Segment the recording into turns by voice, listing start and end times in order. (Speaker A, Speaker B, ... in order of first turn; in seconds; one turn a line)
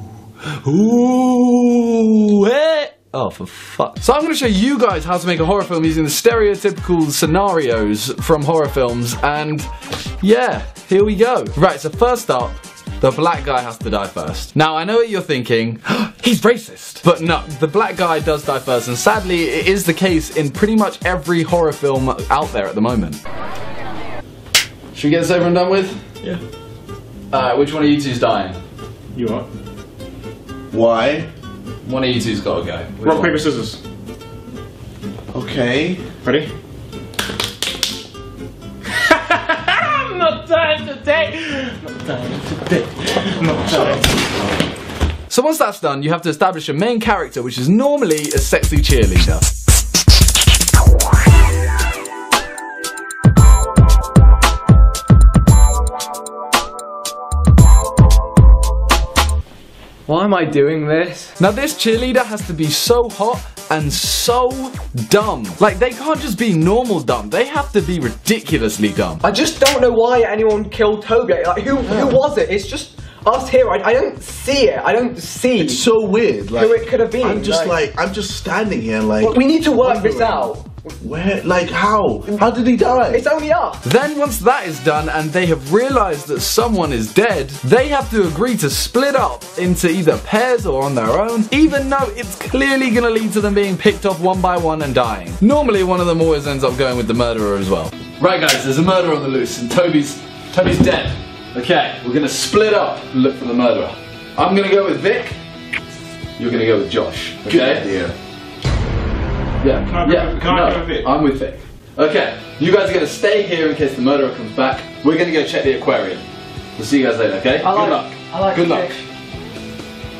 Speaker A: 0.6-9.7
Speaker A: 10.2-23.2
Speaker A: 24.9-26.1
Speaker A: 27.3-28.6
Speaker B: 29.1-29.5
Speaker C: 30.7-31.3
Speaker A: 31.8-33.4
Speaker B: 33.0-33.8
Speaker C: 35.3-36.1
Speaker B: 36.2-36.5
Speaker B: 39.0-44.1
Speaker A: 45.3-49.4
Speaker D: 60.1-61.3
Speaker A: 61.4-69.2
Speaker D: 69.2-75.8
Speaker C: 71.8-72.2
Speaker C: 75.6-83.2
Speaker D: 76.5-77.8
Speaker D: 79.2-80.9
Speaker D: 83.1-83.8
Speaker A: 83.8-105.3
Speaker A: 106.4-107.9
Speaker C: 107.4-108.1
Speaker A: 109.6-116.2
Speaker B: 109.9-111.1
Speaker A: 116.8-118.9
Speaker D: 117.6-119.0